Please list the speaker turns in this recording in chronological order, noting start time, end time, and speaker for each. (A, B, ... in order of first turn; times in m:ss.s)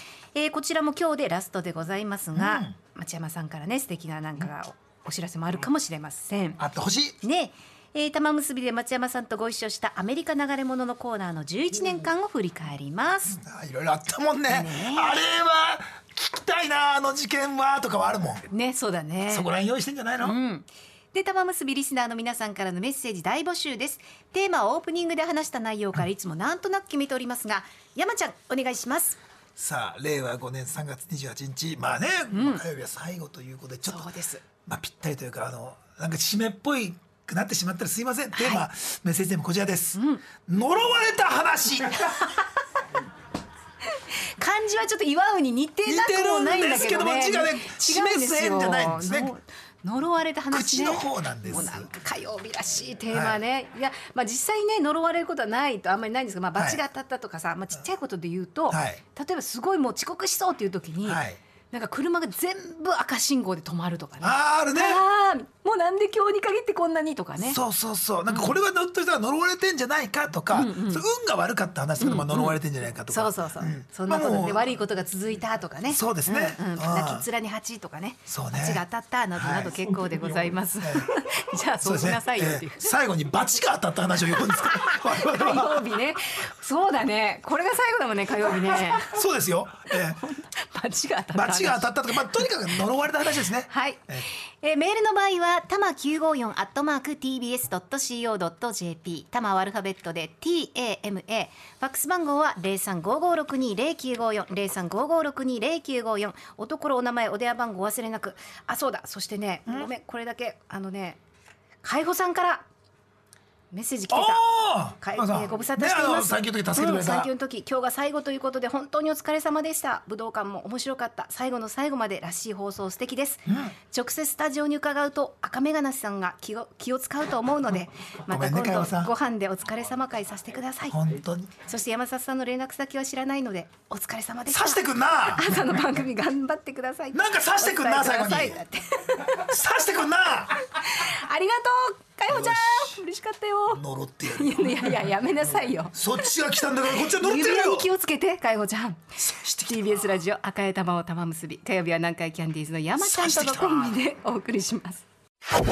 0:00.3-0:06.6 A
0:02.3-0:02.7 B
0:06.6-0:07.2 B
0:07.2-0:13.4 A
0:13.3-0:18.4 B
0:14.5-0:15.2 A
0:18.5-0:19.5 A
0:19.3-0:20.4 B
0:20.2-0:29.2 A
0:29.6-0:34.1 B
0:32.3-0:32.6 A
0:33.8-0:34.4 A
0:34.6-0:42.3 B
0:38.4-0:38.6 A
0:39.9-0:40.2 A
0:43.9-1:07.6 A
0:45.8-0:49.3 B
0:50.5-0:51.9 B
0:53.1-0:53.4 B
0:58.7-0:59.0 B
1:01.0-1:01.4 B
1:04.2-1:05.0 B
1:07.4-1:14.8 B
1:08.3-1:08.6 A
1:10.5-1:11.0 A
1:12.0-1:22.9 A
1:15.9-1:17.2 B
1:18.3-1:18.8 B
1:19.4-1:19.8 B
1:20.8-1:21.1 B
1:21.8-1:25.9 B
1:24.8-1:29.1 A
1:29.0-1:30.2 B
1:29.9-1:32.5 A
1:31.3-1:34.2 B
1:33.7-1:51.2 A
1:51.8-1:52.7 A
1:53.7-2:11.0 A
1:54.1-1:57.3 B
2:03.5-2:03.7 B
2:08.3-2:09.1 B
2:10.9-2:11.5 B
2:11.6-2:19.4 A
2:14.5-2:15.8 B
2:17.1-2:18.6 B
2:19.3-2:20.6 B
2:20.6-2:26.0 A
2:22.3-2:23.0 B
2:23.7-2:24.6 B
2:25.9-2:27.9 B
2:27.1-2:35.0 A
2:29.3-2:29.6 B
2:33.0-2:34.0 B